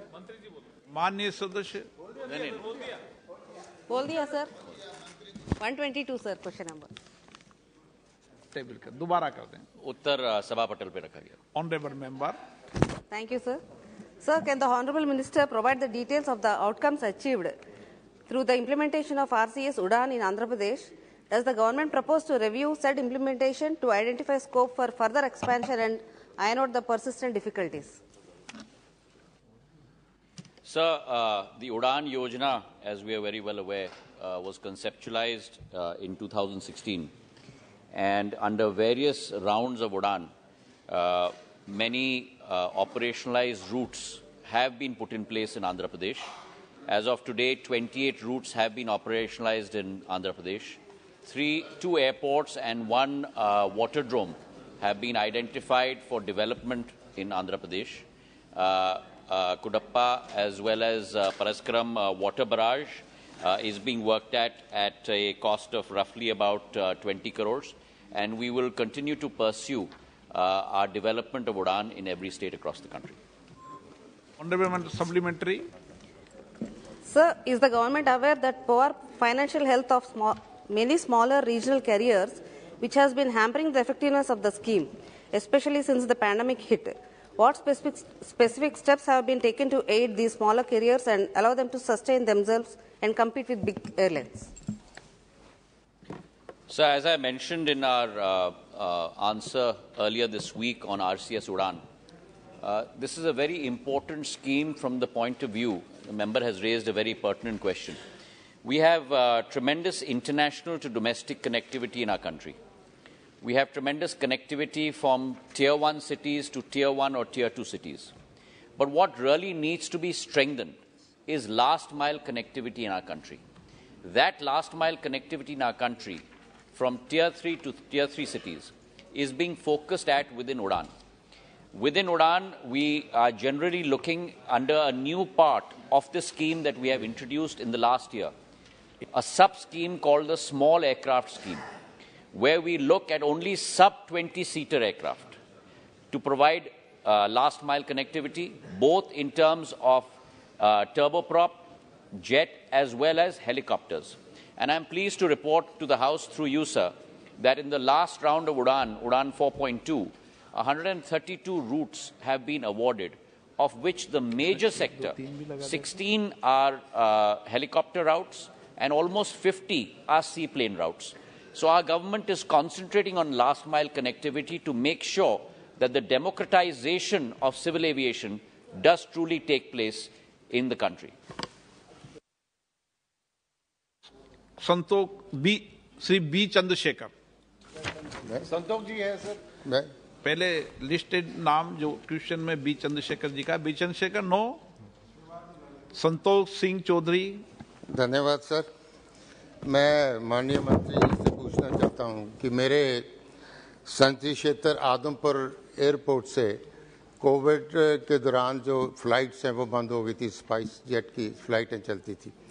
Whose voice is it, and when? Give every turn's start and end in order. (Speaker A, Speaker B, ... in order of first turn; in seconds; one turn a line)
Speaker A: 0.9-1.9
Speaker B: 2.2-2.6
Speaker C: 3.9-4.5
Speaker C: 5.6-6.9
Speaker A: 8.5-9.6
Speaker B: 9.8-11.4
Speaker A: 11.5-12.4
Speaker C: 13.1-13.6
Speaker C: 14.2-17.6
Speaker C: 18.3-28.0
Speaker B: 30.6-37.1
Speaker B: 37.9-40.3
Speaker B: 40.9-46.3
Speaker B: 46.9-73.2
Speaker A: 74.4-75.7
Speaker C: 77.0-94.5
Speaker B: 96.7-101.8
Speaker B: 102.6-108.0
Speaker B: 108.6-112.6
Speaker B: 113.4-118.1
Speaker B: 118.8-123.4
Speaker B: 124.0-130.9
Speaker B: 131.7-138.3
Speaker B: 139.1-141.6
Speaker B: 142.3-145.4
Speaker B: 146.1-181.1
Speaker A: 184.6-187.1
Speaker D: 189.6-189.9
Speaker A: 190.2-194.6
Speaker A: 195.9-197.4
Speaker D: 197.9-198.7
Speaker D: 199.6-203.1
Speaker D: 203.8-206.6
Speaker D: 207.2-212.3